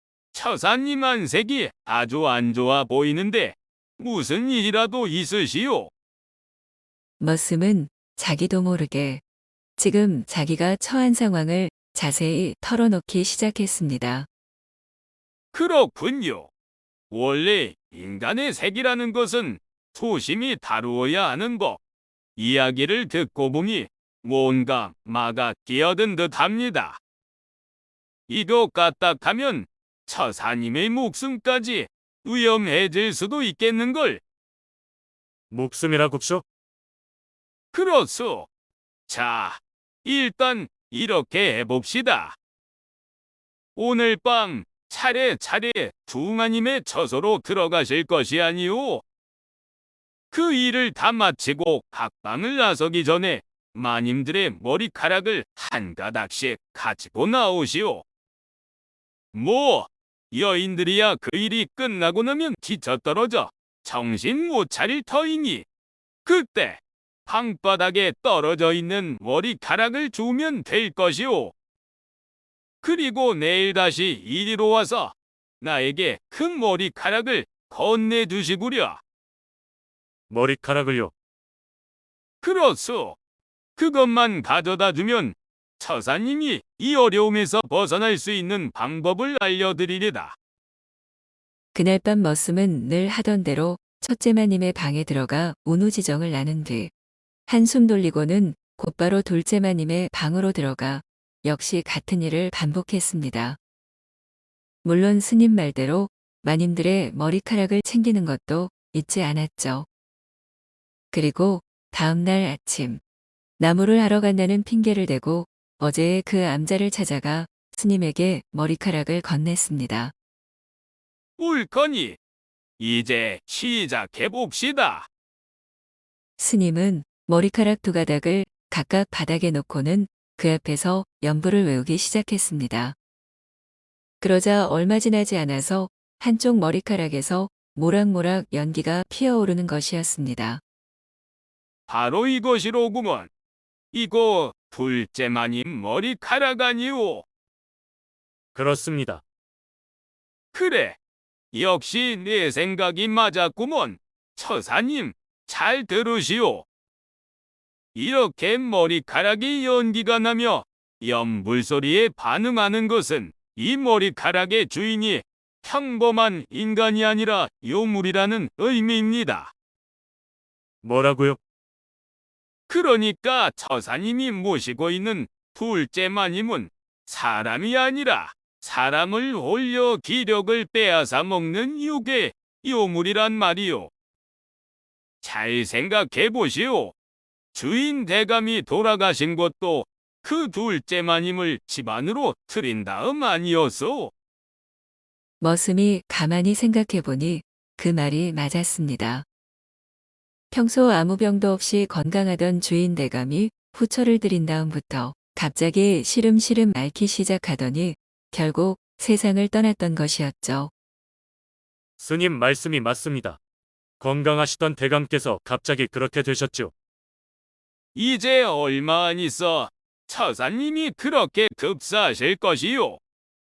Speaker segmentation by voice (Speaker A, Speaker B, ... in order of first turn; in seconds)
Speaker A: 0.3-5.9, 15.5-16.5, 17.1-21.8, 22.4-27.0, 28.3-34.2, 37.7-38.5, 39.1-42.4, 43.8-49.0, 50.3-58.0, 59.3-65.7, 66.3-71.5, 72.8-79.0, 82.4-83.2, 83.8-90.4, 121.4-122.2, 122.8-125.1, 141.9-143.3, 143.9-147.2, 150.5-151.0, 151.5-156.7, 157.9-169.5, 172.7-183.9, 185.2-186.9, 187.5-194.1, 217.9-223.0
Speaker B: 7.2-9.2, 9.8-14.3, 91.7-96.9, 97.5-103.6, 104.8-109.9, 111.1-113.0, 113.6-120.1, 126.4-133.0, 134.2-140.6, 195.4-199.2, 200.5-210.7
Speaker C: 35.5-36.5, 80.3-81.1, 148.6-149.2, 170.8-171.4, 212.0-213.4, 214.0-216.7